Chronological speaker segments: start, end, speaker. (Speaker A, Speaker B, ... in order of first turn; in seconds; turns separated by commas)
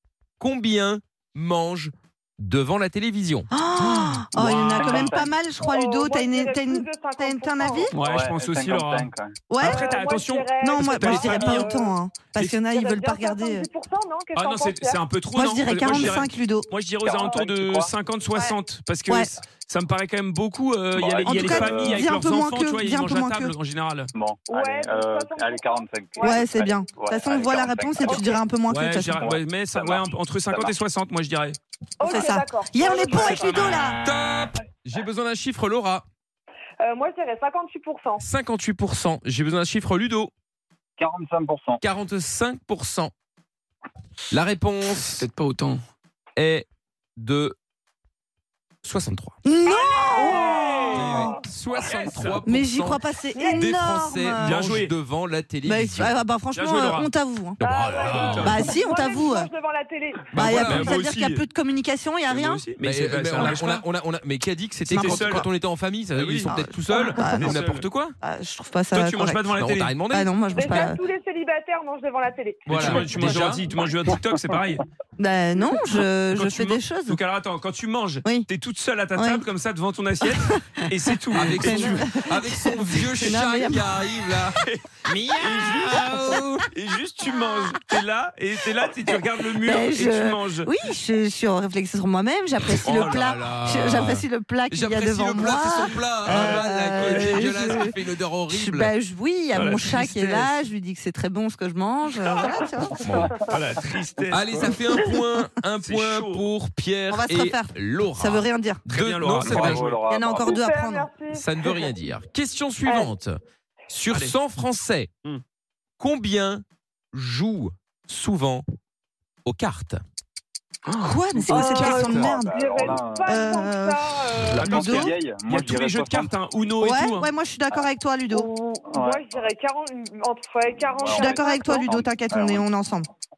Speaker A: 0.4-3.5, Speaker B: 3.5-8.0, Speaker C: 4.3-5.1, Speaker D: 4.4-5.3, Speaker E: 5.6-7.9, Speaker C: 7.9-9.1, Speaker D: 8.0-9.4, Speaker B: 9.5-9.9, Speaker C: 9.6-11.7, Speaker E: 9.6-12.0, Speaker B: 10.6-13.7, Speaker E: 12.7-15.1, Speaker C: 14.3-24.1, Speaker B: 15.3-16.7, Speaker D: 15.8-16.2, Speaker D: 17.0-17.9, Speaker D: 20.9-22.1, Speaker B: 21.2-23.5, Speaker D: 24.1-28.4, Speaker E: 24.5-26.4, Speaker B: 26.2-29.2, Speaker C: 28.7-31.6, Speaker D: 29.2-30.8, Speaker E: 32.0-33.1, Speaker B: 32.0-34.0, Speaker C: 32.9-34.6, Speaker A: 34.1-36.0, Speaker E: 36.8-38.2, Speaker A: 38.2-40.3, Speaker D: 41.0-41.8, Speaker A: 41.8-43.1, Speaker A: 44.3-45.3, Speaker C: 45.2-45.8, Speaker A: 46.4-47.6, Speaker A: 48.8-49.4, Speaker B: 49.5-50.5, Speaker E: 49.9-51.4, Speaker C: 50.1-52.4, Speaker A: 50.9-53.0, Speaker B: 52.5-54.5, Speaker A: 53.5-56.2, Speaker C: 54.4-54.9, Speaker B: 55.7-57.6, Speaker C: 56.5-57.1, Speaker A: 57.6-58.8, Speaker E: 57.6-60.3, Speaker C: 58.1-58.7, Speaker B: 58.4-59.5, Speaker A: 60.3-61.0, Speaker B: 60.3-62.7, Speaker C: 60.6-61.4, Speaker C: 62.3-63.9, Speaker A: 62.8-68.2, Speaker C: 64.9-65.5, Speaker B: 64.9-65.2, Speaker C: 66.1-67.9, Speaker B: 66.5-67.6, Speaker B: 68.2-69.6, Speaker C: 68.9-69.9, Speaker A: 69.5-70.3, Speaker B: 70.1-71.0, Speaker E: 70.5-72.7, Speaker A: 72.7-73.6, Speaker C: 72.7-74.8, Speaker B: 75.2-77.2, Speaker C: 76.3-82.1, Speaker B: 79.2-79.5, Speaker B: 80.4-80.8, Speaker A: 81.3-84.6, Speaker B: 81.4-83.9, Speaker C: 83.2-83.4, Speaker C: 84.6-86.2, Speaker A: 85.4-86.6, Speaker C: 86.7-90.7, Speaker B: 89.6-97.9, Speaker C: 92.8-93.3, Speaker A: 93.0-98.9, Speaker C: 96.3-97.8, Speaker B: 98.5-103.1, Speaker C: 99.5-100.5, Speaker A: 103.0-103.3, Speaker D: 103.1-103.4, Speaker C: 103.4-105.0, Speaker A: 104.3-109.9, Speaker C: 105.8-106.5, Speaker B: 107.1-108.8, Speaker C: 108.9-110.0, Speaker D: 109.4-110.6, Speaker B: 110.1-111.1, Speaker E: 110.5-111.5, Speaker A: 111.3-115.1, Speaker E: 112.8-113.1, Speaker C: 114.1-114.3, Speaker A: 116.0-118.7, Speaker A: 119.5-120.0, Speaker C: 120.8-122.3, Speaker B: 121.0-122.6, Speaker E: 121.5-124.6, Speaker D: 121.8-123.6, Speaker B: 123.3-125.1, Speaker D: 124.5-126.3, Speaker C: 124.5-127.3, Speaker B: 126.8-128.5, Speaker E: 128.3-131.9, Speaker D: 128.9-129.5, Speaker D: 130.8-132.6, Speaker B: 131.1-133.1